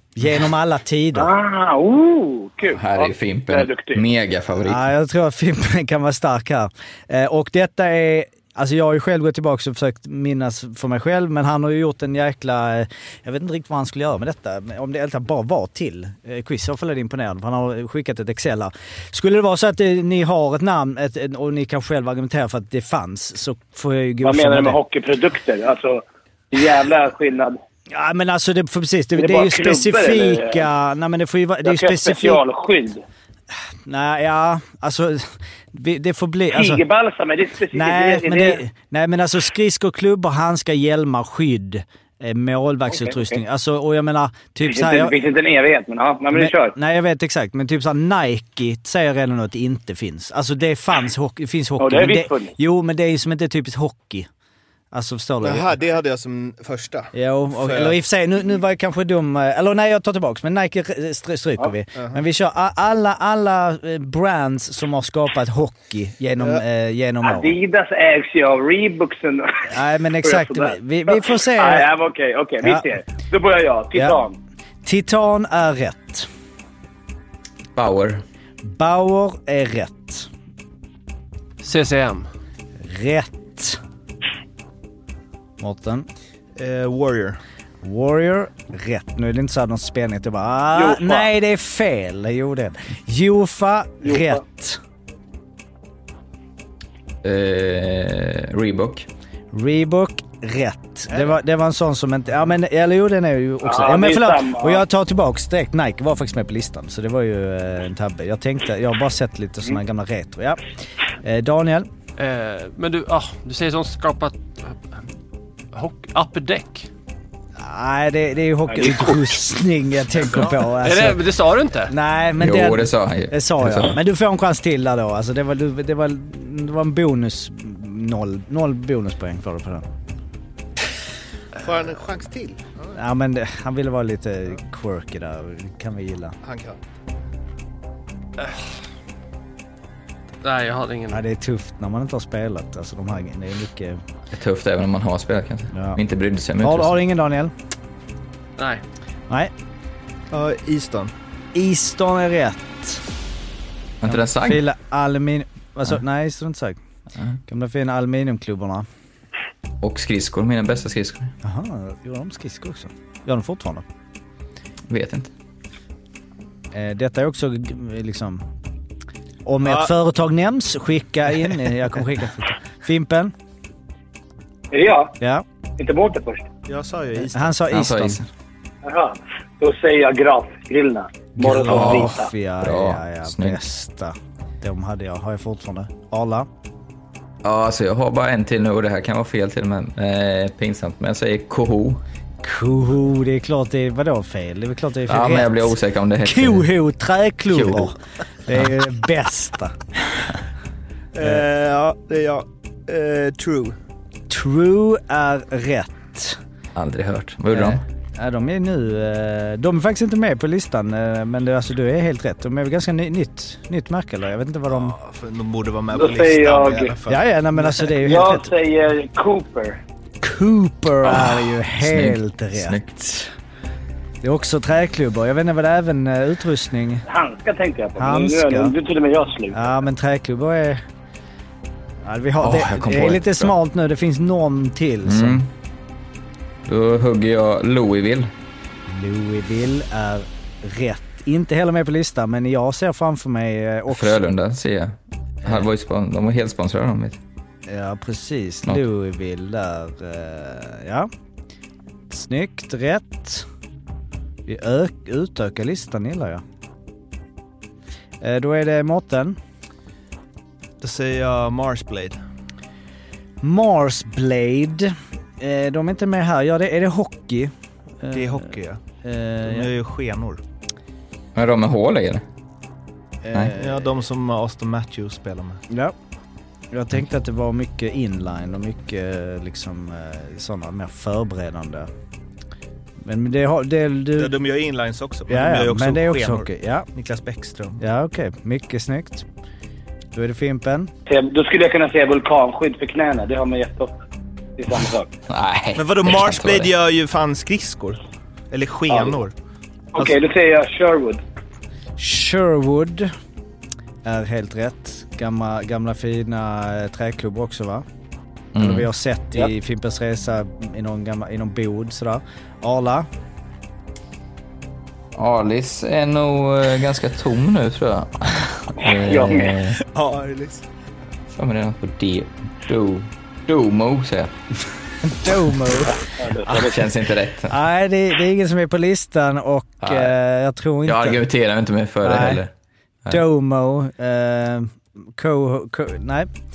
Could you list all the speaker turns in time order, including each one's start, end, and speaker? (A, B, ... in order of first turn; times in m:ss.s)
0:00.2-0:01.3 A
0:01.2-0:04.0 B
0:02.7-0:04.9 C
0:04.6-0:24.8 A
0:24.2-0:27.6 B
0:27.9-0:32.4 A
0:29.2-0:30.6 B
0:31.6-0:33.0 B
0:33.8-0:36.8 A
0:36.5-0:38.6 B
0:37.7-0:45.1 A
0:42.9-0:43.4 B
0:44.6-0:46.8 B
0:46.3-0:54.3 A
0:51.8-0:52.5 B
0:54.9-0:55.7 A
0:55.4-0:58.0 D
0:57.1-1:07.5 A
1:07.2-1:14.4 B
1:09.7-1:11.9 A
1:12.6-1:12.9 A
1:14.0-1:14.2 A
1:14.8-1:16.3 A
1:17.8-1:18.2 C
1:18.6-1:20.3 A
1:21.6-1:22.3 E
1:22.8-1:23.8 A
1:25.6-1:26.1 A
1:26.6-1:27.4 D
1:27.8-1:34.8 A
1:30.7-1:31.3 B
1:34.0-1:34.4 B
1:37.2-1:39.1 C
1:39.5-1:50.7 A
1:43.6-1:44.8 B
1:51.2-1:51.9 A
1:52.2-1:54.9 E
1:55.7-1:56.9 E
1:57.6-2:01.2 A
2:00.6-2:02.0 E
2:01.9-2:09.9 A
2:02.4-2:04.0 C
2:11.6-2:13.0 D
2:12.9-2:16.4 A
2:16.4-2:16.8 D
2:20.4-2:21.2 E
2:21.1-2:24.0 A
2:24.3-2:27.0 C
2:25.7-2:26.0 A
2:26.6-2:27.5 A
2:30.3-2:31.1 D
2:31.5-2:33.0 A
2:34.0-2:34.6 C
2:34.1-2:36.8 A
2:37.5-2:38.9 A
2:39.8-2:41.3 C
2:41.4-2:43.8 A
2:44.9-2:45.3 C
2:46.7-2:48.5 A
2:49.4-2:53.4 A
2:49.6-2:49.9 D
2:54.7-2:55.2 B
2:55.8-2:56.5 B
2:56.7-2:57.6 D
2:57.2-2:58.2 A
2:57.7-2:58.3 C
2:58.8-3:02.3 B
3:01.4-3:06.5 A
3:01.7-3:03.6 C
3:01.8-3:02.0 D
3:07.4-3:12.0 C
3:12.4-3:19.8 A
3:15.1-3:16.7 C
3:17.5-3:17.9 C
3:21.2-3:23.8 D
3:21.2-3:21.5 A
3:24.3-3:26.4 A
3:26.8-3:27.8 C
3:27.5-3:35.0 A
3:34.7-3:37.8 D
3:35.9-3:36.9 B
3:37.1-3:38.5 A
3:38.0-3:39.8 B
3:40.2-3:43.3 A
3:41.0-3:42.9 C
3:44.2-3:47.0 A
3:47.1-3:49.8 B
3:48.0-3:48.7 A
3:49.5-3:50.8 A
3:52.0-3:55.4 A
3:52.4-3:53.5 C
3:55.0-3:55.5 C
3:56.7-3:58.3 C
3:58.9-4:04.2 A
4:03.9-4:07.2 C
4:07.7-4:11.1 A
4:12.1-4:13.5 A
4:14.5-4:16.4 A
4:18.2-4:19.4 A
4:20.8-4:22.2 D
4:23.4-4:29.7 A
4:28.1-4:28.8 D
4:29.4-4:30.4 D
4:31.4-4:32.2 C
4:33.2-4:33.9 A
4:33.6-4:35.6 D
4:35.7-4:36.0 A
4:36.7-4:41.9 A
4:43.0-4:44.3 A
4:44.2-4:47.8 D
4:45.3-4:46.9 A
4:47.8-4:49.3 A
4:50.1-4:50.9 A
4:51.1-4:54.0 B
4:54.6-4:55.1 B
4:55.3-4:56.7 C
4:55.8-4:58.0 D
4:58.5-4:59.3 D
4:58.9-4:59.2 B
4:59.9-5:01.2 B
5:02.0-5:03.1 A
5:04.0-5:07.9 A
5:08.6-5:08.9 C
5:08.6-5:13.1 A
5:15.2-5:19.8 C
5:18.8-5:19.5 B
5:19.8-5:20.6 D
5:21.3-5:24.6 C
5:25.1-5:26.7 A
5:25.9-5:26.8 B
5:26.5-5:27.6 C
5:27.5-5:31.2 A
5:29.8-5:30.1 C
5:30.9-5:32.5 C
5:32.0-5:32.4 A
5:33.1-5:36.3 A